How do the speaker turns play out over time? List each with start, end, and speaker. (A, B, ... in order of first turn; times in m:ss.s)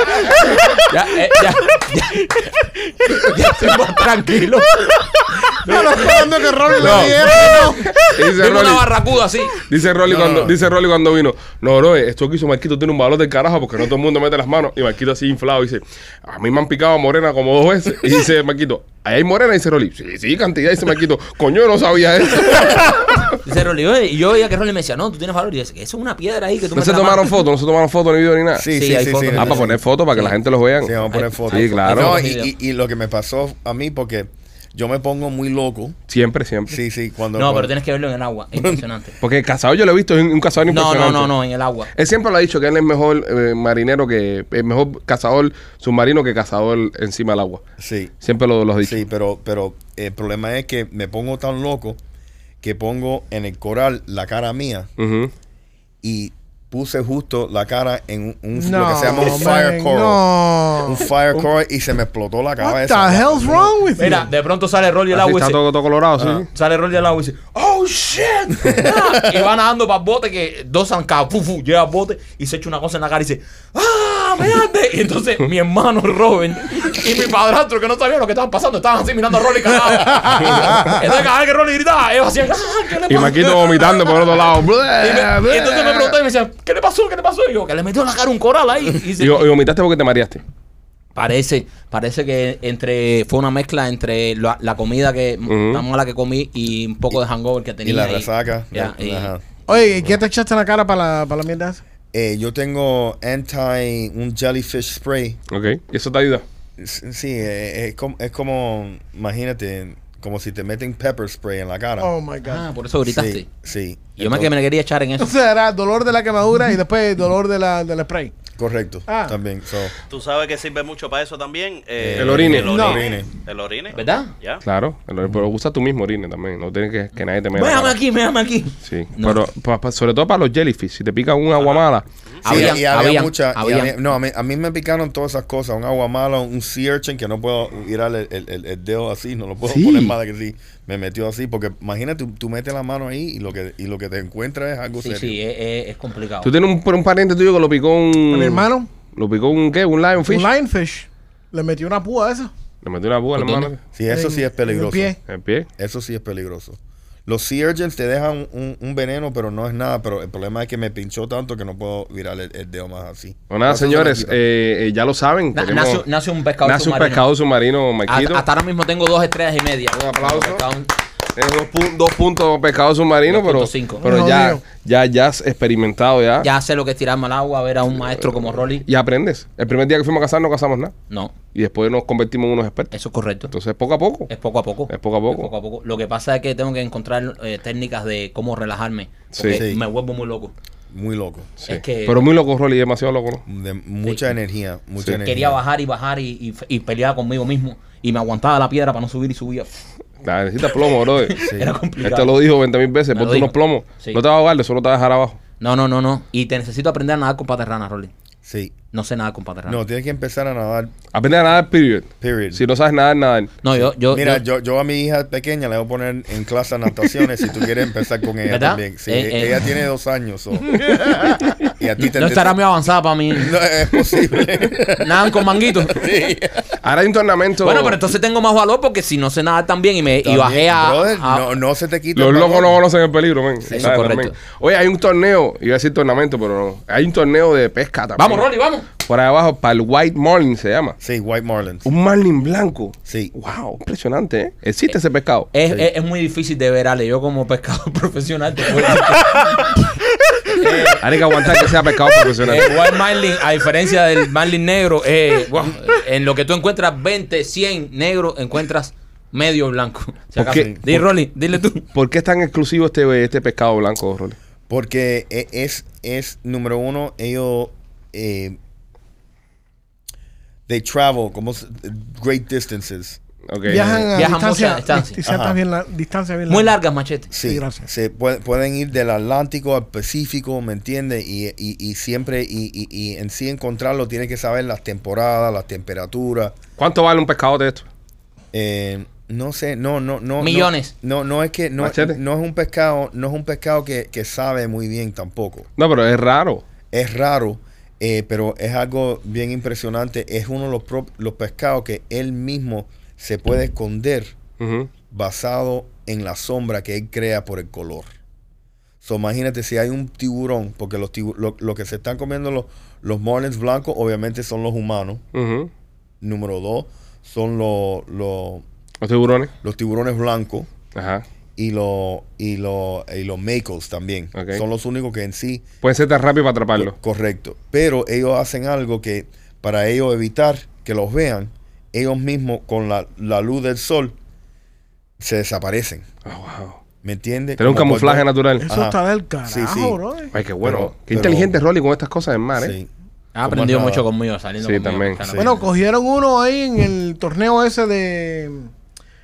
0:00.7-0:09.6 A
0:05.6-0:08.0 B
0:06.8-0:07.2 C
0:08.0-0:08.9 C
0:09.6-0:23.4 C
0:10.1-0:10.6 D
0:23.4-0:27.4 A
0:26.7-0:28.7 C
0:28.6-0:29.8 D
0:28.7-0:30.4 A
0:29.4-0:32.2 C
0:30.8-0:36.0 D
0:31.1-0:32.5 A
0:36.1-0:36.8 C
0:36.7-0:37.7 D
0:37.4-0:39.2 A
0:39.2-0:41.3 C
0:40.7-0:41.9 A
0:41.9-0:47.6 C
0:47.8-0:48.1 D
0:48.2-0:49.0 C
0:48.8-0:52.0 D
0:52.6-0:54.9 D
0:55.0-0:55.3 C
0:56.0-1:03.8 D
0:58.6-1:01.0 B
1:02.6-1:04.3 B
1:04.0-1:05.6 A
1:05.1-1:06.5 C
1:06.2-1:06.4 D
1:06.5-1:24.4 A
1:08.6-1:09.4 D
1:23.1-1:26.2 C
1:25.0-1:29.5 A
1:29.2-1:30.4 C
1:31.2-1:39.3 A
1:35.5-1:35.8 C
1:37.8-1:39.6 D
1:39.7-1:41.8 B
1:42.1-1:45.4 D
1:45.5-1:46.4 C
1:46.8-1:52.1 D
1:52.0-1:52.7 B
1:52.4-1:53.5 A
1:53.1-1:54.5 D
1:54.2-1:55.3 A
1:55.2-1:58.3 B
1:58.6-1:59.9 D
1:59.1-1:59.4 B
2:00.1-2:04.6 E
2:02.0-2:03.3 D
2:02.2-2:02.8 C
2:02.6-2:03.1 B
2:03.9-2:04.3 A
2:04.6-2:08.0 C
2:07.5-2:09.4 A
2:08.8-2:12.1 C
2:12.4-2:13.9 A
2:12.4-2:25.4 D
2:19.7-2:20.2 C
2:25.0-2:26.5 A
2:26.4-2:30.5 C
2:28.3-2:28.9 B
2:30.2-2:32.5 B
2:32.8-2:33.8 C
2:33.4-2:33.7 A
2:33.9-2:35.2 D
2:34.1-2:35.2 B
2:35.3-2:35.7 C
2:35.8-2:44.4 D
2:43.5-2:46.0 C
2:45.5-2:47.2 A
2:46.6-2:48.4 C
2:48.1-2:50.9 A
2:50.0-2:50.6 C
2:51.4-2:56.5 C
2:53.3-2:54.1 A
2:54.0-2:54.6 B
2:56.4-2:58.8 A
2:58.2-3:00.9 C
3:01.5-3:02.9 C
3:02.9-3:03.5 A
3:03.5-3:04.3 C
3:04.3-3:10.5 A
3:04.9-3:05.5 C
3:09.3-3:09.6 C
3:09.5-3:09.8 D
3:10.9-3:11.5 D
3:11.6-3:13.4 C
3:11.7-3:12.3 A
3:13.5-3:15.6 D
3:15.2-3:19.8 A
3:20.2-3:21.4 C
3:21.3-3:22.4 A
3:21.4-3:21.7 D
3:22.0-3:25.4 C
3:23.1-3:24.2 A
3:25.6-3:28.1 A
3:28.4-3:28.7 D
3:28.9-3:29.8 A
3:29.7-3:30.9 D
3:31.1-3:33.5 C
3:32.2-3:32.6 D
3:33.6-3:34.4 A
3:33.7-3:42.6 D
3:38.5-3:39.6 A
3:42.0-3:43.6 A
3:43.3-3:46.8 D
3:45.0-3:46.1 A
3:46.8-3:48.0 C
3:47.6-3:51.5 A
3:50.2-3:52.8 D
3:52.2-4:01.0 C
3:53.7-3:54.4 A
3:58.2-3:58.9 A
4:01.0-4:01.9 D
4:01.8-4:05.5 C
4:03.1-4:03.3 D
4:05.5-4:09.8 A
4:10.5-4:11.7 A
4:11.0-4:12.8 C
4:12.4-4:21.8 A
4:20.4-4:21.0 C
4:20.4-4:20.8 D
4:21.9-4:24.4 C
4:24.7-4:28.6 D
4:30.7-4:33.2 D
4:33.5-4:34.1 C
4:33.7-4:36.8 B
4:34.1-4:35.2 A
4:35.2-4:35.6 D
4:36.5-4:37.3 A
4:37.3-4:46.6 D
4:37.4-4:37.9 B
4:46.8-4:47.9 C
4:48.5-4:55.7 D
4:50.4-4:50.9 A
4:51.8-4:52.2 C
4:55.8-4:56.6 C
4:56.9-5:04.4 D
5:04.6-5:04.9 C
5:05.1-5:08.1 D
5:09.0-5:15.2 D
5:15.3-5:15.7 C
5:16.2-5:18.6 D
5:19.0-5:19.5 C
5:19.6-5:20.7 D
5:21.0-5:21.2 C
5:21.6-5:25.7 D
5:24.4-5:24.6 C
5:25.8-5:27.0 C
5:26.8-5:34.2 D
5:35.2-5:36.1 D
5:36.3-5:36.8 C
5:37.0-5:40.0 D
5:37.6-5:38.6 C
5:38.6-5:40.3 B
5:40.3-5:42.7 C
5:40.6-5:41.5 D
5:42.6-5:42.9 D
5:43.4-5:45.7 A
5:43.4-5:44.0 D
5:44.6-5:45.2 C
5:45.4-5:48.7 B